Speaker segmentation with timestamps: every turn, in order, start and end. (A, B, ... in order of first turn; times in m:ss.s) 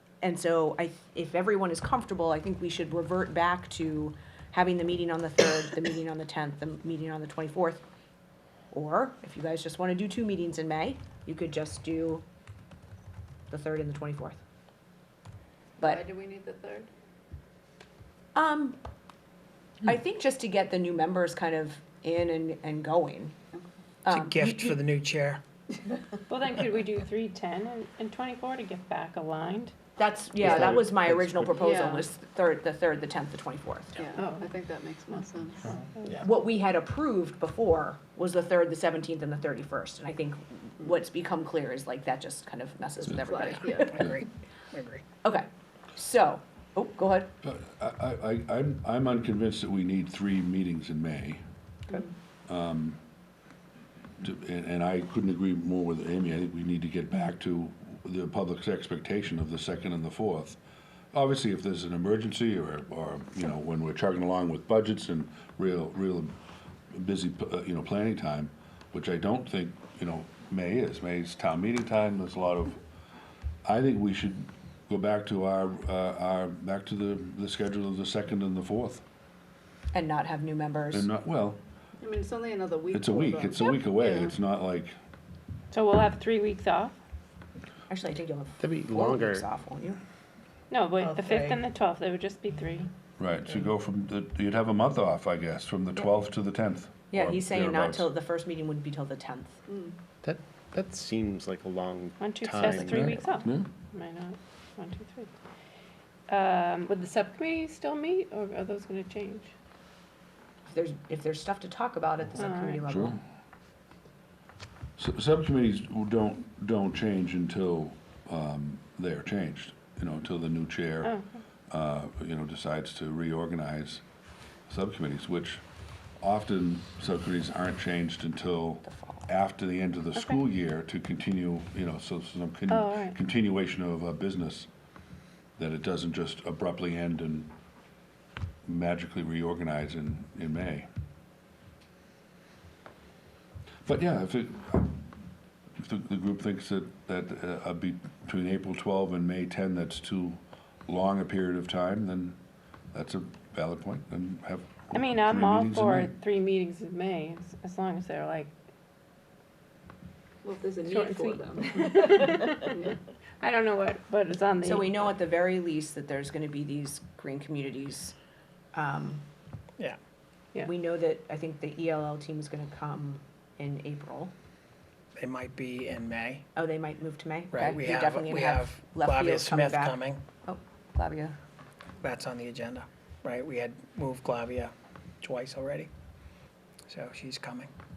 0:00.2-0:07.8 A
0:08.7-0:12.2 A
0:13.5-0:14.4 A
0:15.8-0:16.9 B
0:18.3-0:18.8 A
0:19.8-0:23.3 A
0:24.0-0:24.8 A
0:24.1-0:25.4 C
0:26.3-0:29.7 D
0:30.0-0:34.0 A
0:31.6-0:32.0 B
0:34.0-0:35.8 B
0:34.2-0:34.5 D
0:36.2-0:44.1 A
0:43.2-0:44.0 B
0:43.9-0:45.0 C
0:45.2-0:47.3 A
0:47.4-0:51.4 E
0:52.5-0:53.0 E
0:54.2-1:00.6 E
1:01.1-1:06.3 E
1:06.9-1:12.8 E
1:13.6-1:19.0 E
1:19.9-1:21.1 A
1:20.9-1:21.6 E
1:22.0-1:24.3 B
1:22.9-1:25.0 E
1:25.7-1:26.9 D
1:27.9-1:30.0 A
1:28.6-1:29.4 F
1:30.7-1:32.9 D
1:33.2-1:38.1 E
1:37.1-1:39.6 A
1:40.2-1:43.1 F
1:42.2-1:45.3 D
1:42.8-1:43.7 E
1:46.3-1:49.5 D
1:50.7-1:53.2 A
1:52.4-1:52.8 D
1:52.8-1:53.2 E
1:55.0-2:01.2 E
2:01.7-2:04.0 E
2:04.7-2:05.6 E
2:06.2-2:14.7 E
2:08.9-2:09.3 A
2:12.7-2:13.2 D
2:15.6-2:17.5 E
2:18.6-2:20.9 E
2:23.8-2:25.2 E
2:25.8-2:32.4 E
2:32.9-2:36.2 E
2:34.9-2:38.5 D
2:40.4-2:43.0 B
2:40.8-2:42.8 D
2:43.4-2:44.9 D
2:44.6-2:48.1 A
2:48.7-2:49.2 A
2:50.6-2:54.3 A
2:55.2-2:56.4 C
2:56.6-3:01.3 A
2:57.5-3:00.2 C
3:02.0-3:05.9 C
3:06.9-3:07.7 C